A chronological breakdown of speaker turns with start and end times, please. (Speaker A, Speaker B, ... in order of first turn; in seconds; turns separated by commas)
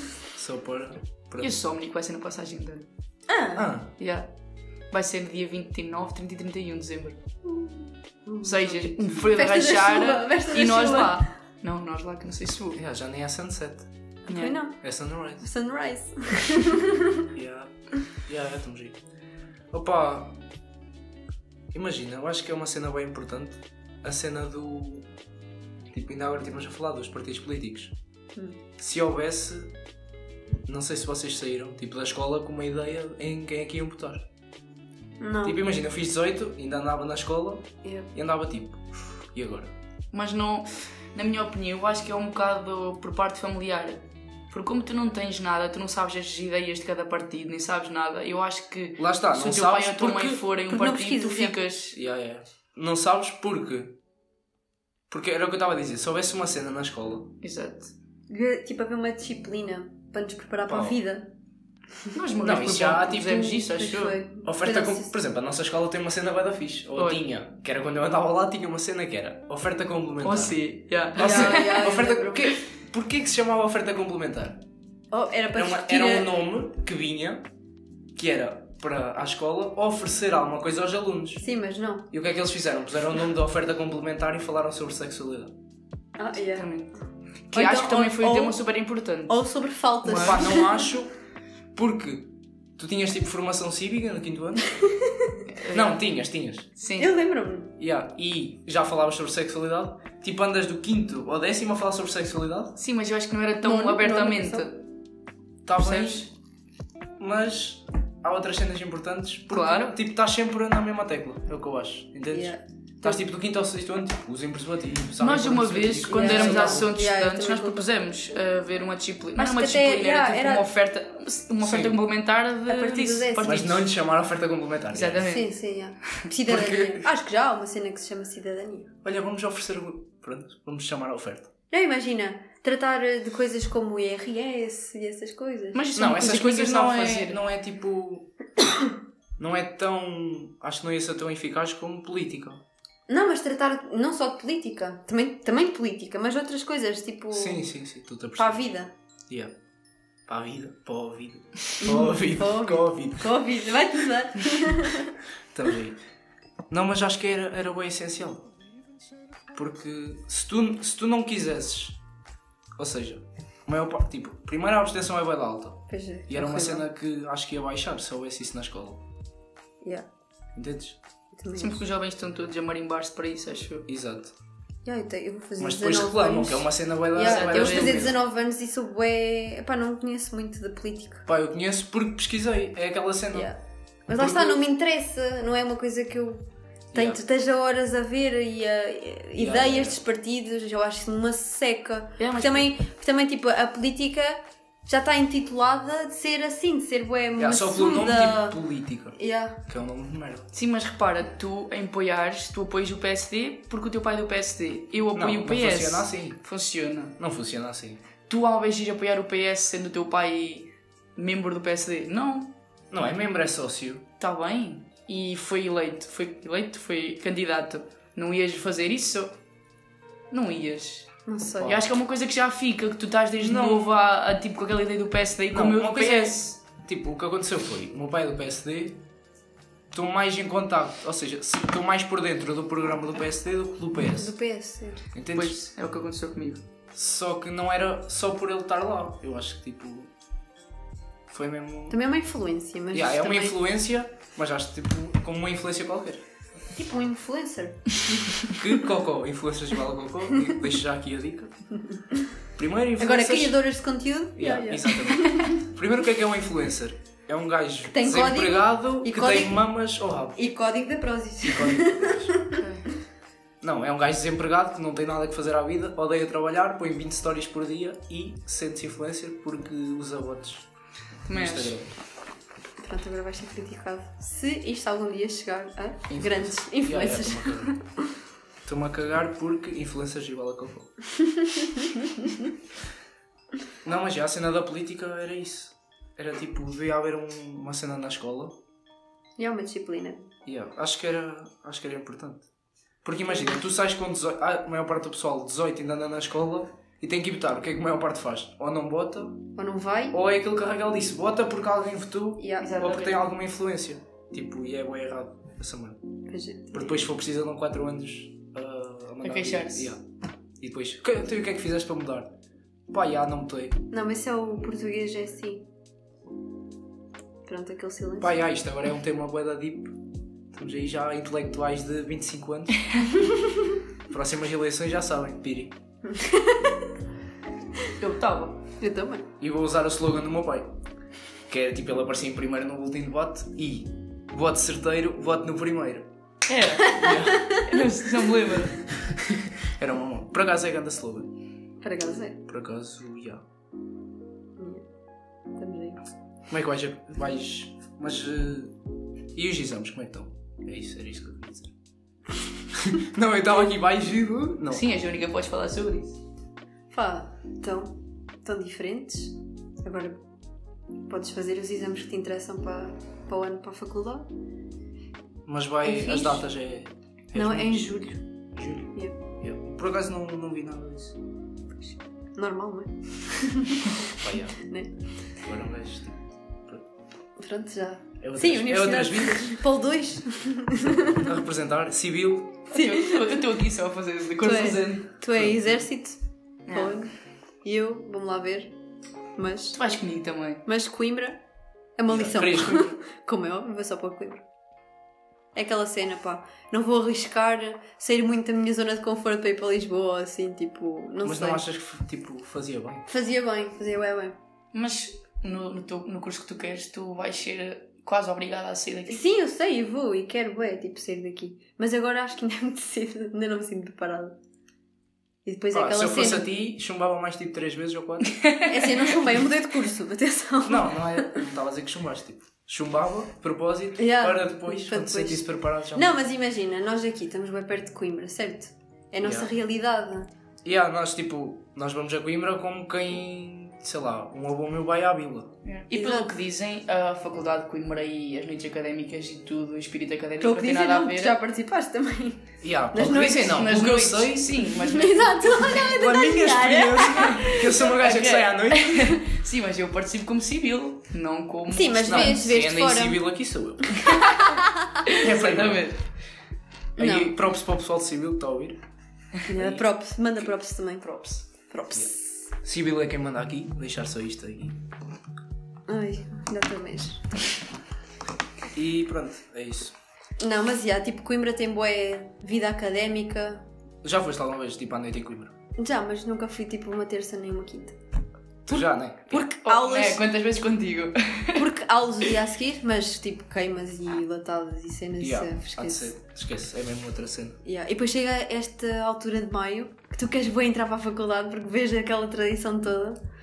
Speaker A: 0.3-1.5, Speaker B: 1.4-2.9, Speaker C: 3.3-3.7, Speaker A: 3.5-3.9, Speaker B: 4.0-4.3, Speaker B: 4.9-7.2, Speaker C: 7.5-11.2, Speaker B: 8.4-12.8, Speaker A: 12.8-13.9, Speaker C: 14.3-14.8, Speaker B: 14.3-14.6, Speaker A: 14.8-15.5, Speaker C: 15.4-17.3, Speaker A: 17.3-19.0, Speaker A: 19.7-20.4, Speaker A: 21.7-25.1, Speaker A: 25.9-27.9, Speaker A: 28.8-29.7, Speaker A: 30.7-34.3, Speaker C: 35.2-35.6, Speaker A: 35.4-39.7, Speaker C: 37.8-38.1, Speaker B: 40.1-52.0, Speaker A: 49.0-50.4, Speaker C: 50.7-51.6, Speaker A: 51.9-54.0, Speaker A: 55.1-57.3, Speaker B: 57.4-57.9, Speaker C: 58.3-61.3, Speaker A: 60.7-61.0, Speaker B: 62.1-64.2, Speaker A: 62.4-63.7, Speaker C: 63.5-65.1, Speaker A: 64.5-70.6, Speaker B: 67.0-67.2, Speaker B: 70.2-71.9, Speaker A: 71.2-74.6, Speaker C: 71.2-72.6, Speaker C: 75.1-76.3, Speaker A: 75.5-77.5, Speaker A: 78.2-81.5, Speaker C: 81.4-82.1, Speaker A: 82.1-85.5, Speaker C: 86.2-86.7, Speaker B: 86.6-87.0, Speaker B: 87.5-89.4, Speaker C: 87.5-88.6, Speaker C: 89.3-90.8, Speaker B: 90.0-90.5, Speaker A: 90.1-91.1, Speaker A: 91.7-94.8, Speaker C: 94.8-95.4, Speaker B: 95.5-96.0, Speaker A: 95.7-96.7, Speaker B: 96.8-97.1, Speaker C: 97.0-97.7, Speaker A: 97.8-102.8, Speaker B: 102.8-104.8, Speaker C: 103.6-104.7, Speaker A: 105.7-106.3, Speaker B: 105.8-106.3, Speaker A: 107.2-116.9, Speaker B: 109.5-110.0, Speaker C: 112.3-113.2, Speaker B: 115.2-123.9, Speaker C: 116.1-117.8, Speaker C: 119.4-120.7, Speaker A: 121.6-122.0, Speaker C: 122.7-123.6, Speaker A: 123.4-125.3, Speaker B: 124.9-125.6, Speaker C: 125.3-128.9, Speaker A: 126.5-127.1, Speaker A: 129.0-131.5, Speaker C: 131.7-135.8, Speaker B: 135.7-137.4, Speaker A: 136.0-138.3, Speaker A: 139.4-142.6, Speaker C: 143.1-147.6, Speaker A: 147.3-148.6, Speaker C: 148.4-148.9, Speaker A: 149.3-149.5, Speaker A: 150.3-153.3, Speaker C: 151.8-155.1, Speaker A: 155.5-156.0, Speaker A: 156.7-158.5, Speaker A: 159.5-162.0, Speaker A: 162.8-169.0, Speaker C: 165.9-166.8, Speaker A: 170.6-171.0, Speaker C: 171.3-171.8, Speaker B: 171.6-173.9, Speaker A: 173.9-174.3, Speaker C: 174.8-181.3, Speaker A: 175.6-178.2, Speaker B: 177.2-178.1, Speaker A: 181.3-183.5, Speaker C: 183.3-198.6, Speaker A: 184.2-184.6, Speaker A: 186.9-187.2, Speaker A: 189.4-190.0, Speaker B: 192.2-192.7, Speaker A: 197.4-200.5, Speaker C: 199.1-199.6, Speaker B: 200.5-207.2, Speaker A: 205.1-206.4, Speaker A: 207.2-208.0, Speaker B: 208.3-212.6, Speaker A: 212.9-214.1, Speaker B: 214.2-219.4, Speaker B: 220.3-226.6, Speaker C: 221.3-221.8, Speaker A: 223.4-223.9, Speaker A: 225.5-229.0, Speaker A: 229.9-234.3, Speaker C: 234.2-235.1, Speaker A: 235.1-235.6, Speaker B: 235.3-236.6, Speaker A: 236.9-240.1, Speaker A: 241.3-242.0, Speaker C: 241.9-243.6, Speaker A: 242.9-246.2, Speaker C: 246.8-248.6, Speaker A: 248.5-251.5, Speaker A: 252.6-253.6, Speaker C: 253.0-255.6, Speaker A: 254.4-260.4, Speaker C: 257.9-259.6, Speaker C: 260.4-262.6, Speaker A: 261.4-262.4, Speaker B: 262.5-262.9, Speaker A: 263.6-270.7, Speaker B: 271.3-271.8, Speaker A: 271.3-271.9, Speaker C: 272.8-277.8, Speaker A: 276.1-277.8, Speaker A: 278.6-280.9, Speaker C: 281.6-282.3, Speaker A: 283.8-288.6, Speaker C: 289.4-290.3, Speaker A: 290.5-292.5, Speaker A: 293.0-299.4, Speaker C: 299.6-300.2, Speaker A: 300.1-306.0, Speaker C: 302.4-302.8, Speaker B: 302.6-303.2, Speaker C: 306.3-307.1, Speaker A: 306.7-310.0, Speaker B: 309.2-309.9, Speaker A: 310.6-312.4, Speaker A: 312.9-313.8, Speaker C: 313.9-315.7, Speaker C: 317.5-318.4, Speaker A: 318.2-320.0, Speaker A: 320.5-322.9, Speaker A: 324.1-325.8, Speaker C: 326.1-326.9, Speaker B: 328.0-328.6, Speaker C: 328.8-329.3, Speaker A: 329.4-330.7, Speaker A: 331.5-336.1, Speaker B: 336.5-338.9, Speaker A: 336.9-337.5, Speaker A: 339.0-341.3, Speaker C: 341.8-342.4, Speaker A: 342.5-343.4, Speaker C: 344.6-344.8, Speaker C: 345.6-346.0, Speaker A: 346.5-348.7, Speaker A: 349.4-351.7, Speaker A: 352.7-354.9, Speaker B: 354.7-356.2, Speaker C: 356.9-360.2, Speaker C: 361.1-364.3, Speaker A: 365.5-368.0, Speaker C: 365.8-366.5, Speaker C: 367.4-368.2, Speaker A: 368.5-371.2, Speaker C: 371.8-374.9, Speaker A: 374.2-374.6, Speaker A: 375.4-376.8, Speaker C: 377.4-381.3, Speaker A: 378.2-379.6, Speaker A: 380.8-382.7, Speaker B: 382.7-385.1, Speaker C: 382.7-383.4, Speaker C: 384.4-387.1, Speaker A: 385.3-385.7, Speaker B: 386.7-387.0, Speaker C: 387.6-388.7, Speaker C: 389.4-389.8, Speaker B: 389.8-390.6, Speaker C: 390.7-391.4, Speaker C: 392.0-394.4, Speaker A: 392.1-392.9, Speaker C: 395.6-401.6, Speaker A: 401.2-403.1, Speaker C: 403.1-404.4, Speaker B: 404.7-409.2, Speaker C: 409.1-414.4, Speaker C: 415.4-416.5, Speaker A: 415.7-418.4, Speaker C: 418.7-421.3, Speaker A: 420.6-426.1, Speaker C: 424.0-430.3, Speaker A: 429.2-429.5, Speaker A: 430.6-435.5, Speaker B: 435.6-441.4, Speaker C: 435.9-436.3, Speaker C: 440.4-443.6, Speaker A: 442.6-444.6, Speaker B: 443.4-445.8, Speaker C: 444.8-447.9, Speaker A: 445.8-449.2, Speaker B: 447.2-452.5, Speaker C: 451.7-453.2, Speaker A: 452.1-454.2, Speaker B: 454.1-454.5, Speaker C: 454.4-454.9, Speaker B: 455.1-456.0, Speaker A: 455.2-455.9, Speaker A: 457.0-458.8, Speaker C: 457.0-457.3, Speaker C: 459.5-462.4, Speaker A: 459.5-459.8, Speaker A: 462.6-464.8, Speaker C: 465.9-467.3, Speaker A: 468.7-469.9, Speaker C: 470.4-473.7, Speaker A: 474.0-475.5, Speaker C: 475.8-478.0, Speaker A: 478.7-479.4, Speaker C: 479.3-480.2, Speaker B: 479.4-481.6, Speaker C: 481.6-486.1, Speaker A: 485.2-487.6, Speaker C: 487.6-493.2